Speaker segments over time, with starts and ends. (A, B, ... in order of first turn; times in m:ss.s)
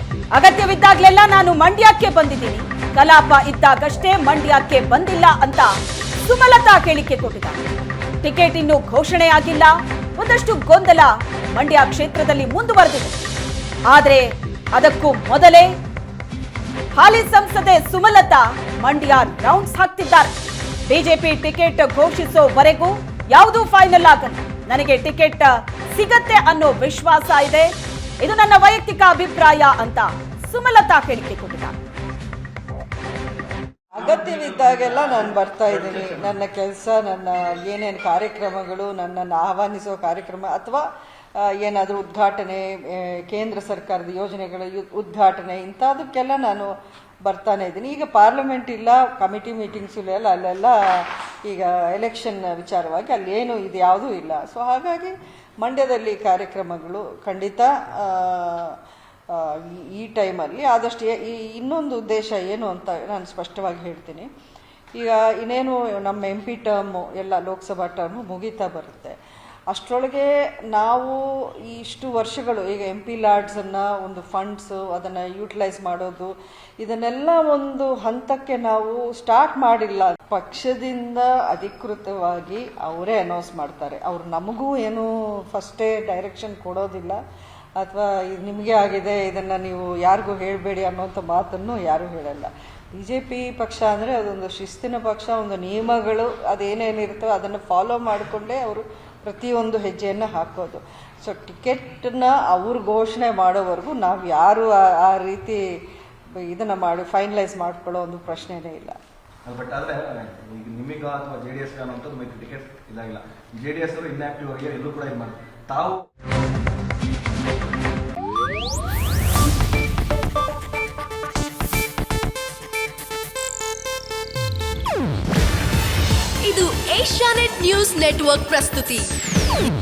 0:00.3-0:05.7 A
0:06.2-0:07.6 A
0:08.2-0:13.2 A
0:13.9-0:15.7 A
0:17.0-0:20.3 A
0:20.9-0:31.8 A
0:33.9-0:40.8 B
0:34.8-0:35.2 C
0:41.4-0:46.7 B
0:47.2-0:58.8 B
0:59.3-1:04.3 B
1:05.0-1:09.2 B
1:09.7-1:27.2 B
1:27.8-1:45.6 B
1:46.4-1:49.0 B
1:49.4-1:56.0 C
2:06.4-2:09.1 D